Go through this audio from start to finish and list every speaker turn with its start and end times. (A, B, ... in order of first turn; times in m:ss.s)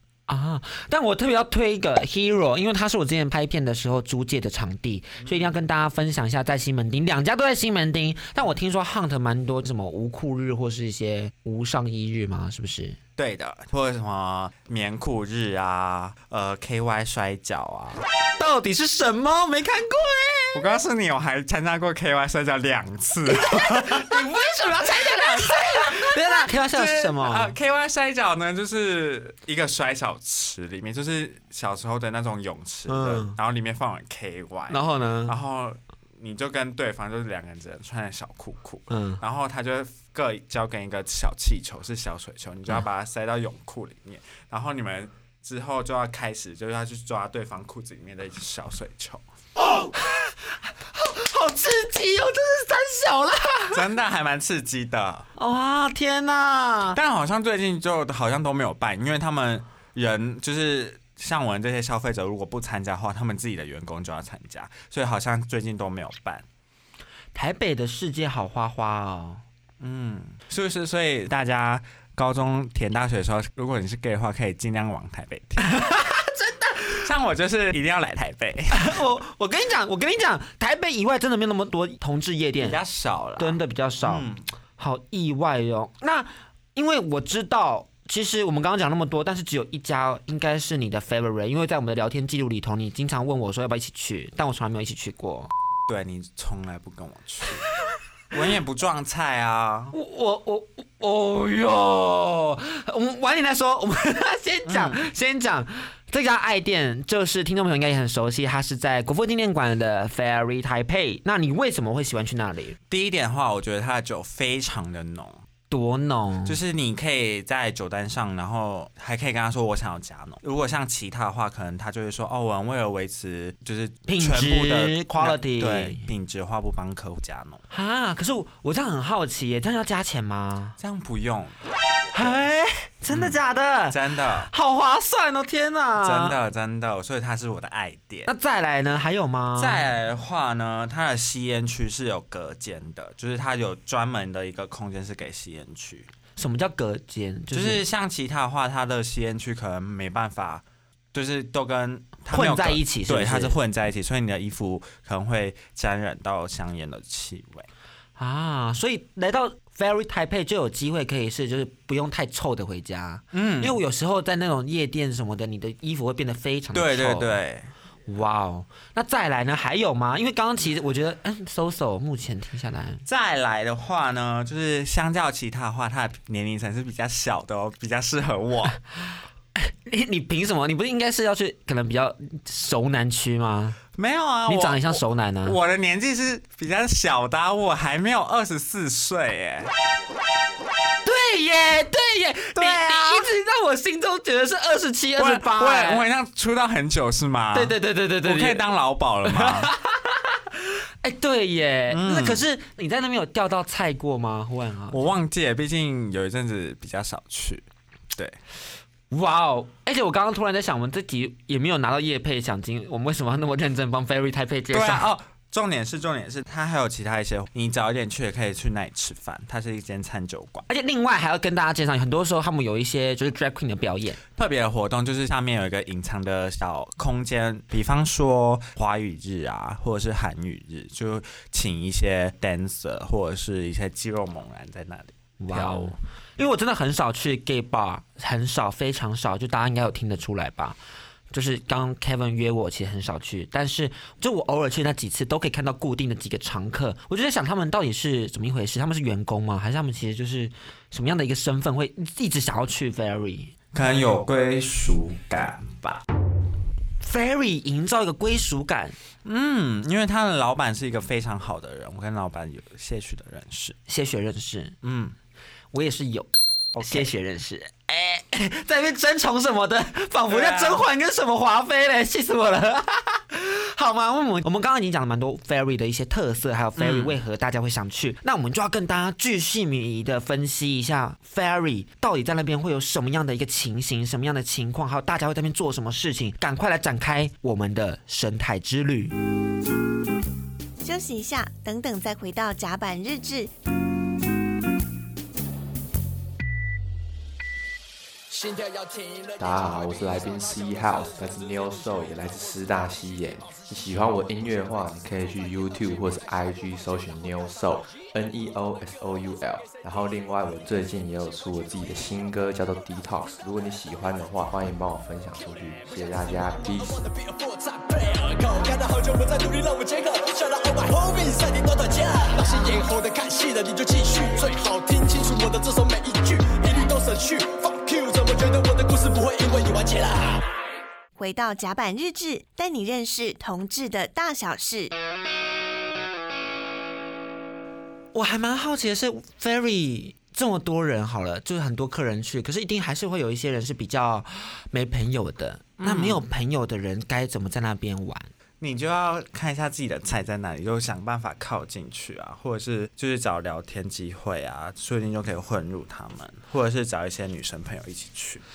0:00.3-0:13.0 A
0:05.2-0:05.5 B
0:13.2-0:18.0 B
0:18.4-0:20.8 A
0:20.5-0:24.3 B
0:23.3-0:27.6 A
0:24.9-0:49.2 B
0:32.9-0:33.4 A
0:34.7-0:35.4 A
0:38.9-0:39.2 A
0:49.8-0:53.8 A
0:53.7-0:55.3 B
0:55.4-0:57.0 A
0:56.9-1:06.4 B
1:07.3-1:09.4 A
1:09.8-1:15.7 B
1:15.6-1:16.9 A
1:17.0-1:19.0 B
1:18.7-1:22.8 A
1:22.6-1:24.4 B
1:23.4-1:35.5 A
1:35.9-1:37.7 B
1:38.3-1:40.0 B
1:39.9-1:52.8 A
1:44.7-1:45.0 B
1:52.9-1:55.4 B
1:55.7-1:56.6 A
1:56.4-2:07.6 B
2:04.1-2:06.1 A
2:07.7-2:10.8 A
2:10.8-2:11.6 B
2:12.1-2:12.4 B
2:12.1-2:16.4 A
2:13.1-2:14.5 B
2:16.0-2:18.3 B
2:18.3-2:19.8 A
2:19.6-2:26.1 B
2:26.4-2:27.8 A
2:27.5-2:37.7 B
2:32.3-2:33.6 A
2:38.2-2:47.4 A
2:43.3-2:43.8 B
2:46.7-2:47.7 B
2:48.1-2:53.0 A
2:53.0-2:58.8 B
2:59.6-3:03.8 A
3:04.0-3:09.7 B
3:04.5-3:05.6 A
3:11.0-3:16.1 A
3:12.5-3:13.3 B
3:15.2-3:19.7 B
3:17.5-3:18.7 A
3:19.2-3:25.0 A
3:21.9-3:22.4 B
3:24.9-3:28.4 B
3:29.1-3:35.1 A
3:34.7-3:40.7 B
3:40.7-3:44.2 A
3:44.4-3:56.0 B
3:55.4-4:00.8 A
4:01.3-4:13.5 A
4:13.7-4:16.0 B
4:17.0-4:19.0 A
4:19.2-4:23.8 B
4:23.9-4:24.8 A
4:24.8-4:25.2 B
4:25.7-4:49.1 A
4:26.8-4:27.1 B
4:30.3-4:30.8 B
4:36.8-4:37.2 B
4:50.8-4:53.5 C
4:58.3-5:02.6 D
4:59.4-5:17.1 E
5:17.0-5:30.2 D
5:31.2-5:34.9 C
5:38.1-5:48.3 A
5:45.8-5:46.2 B
5:48.6-5:58.4 B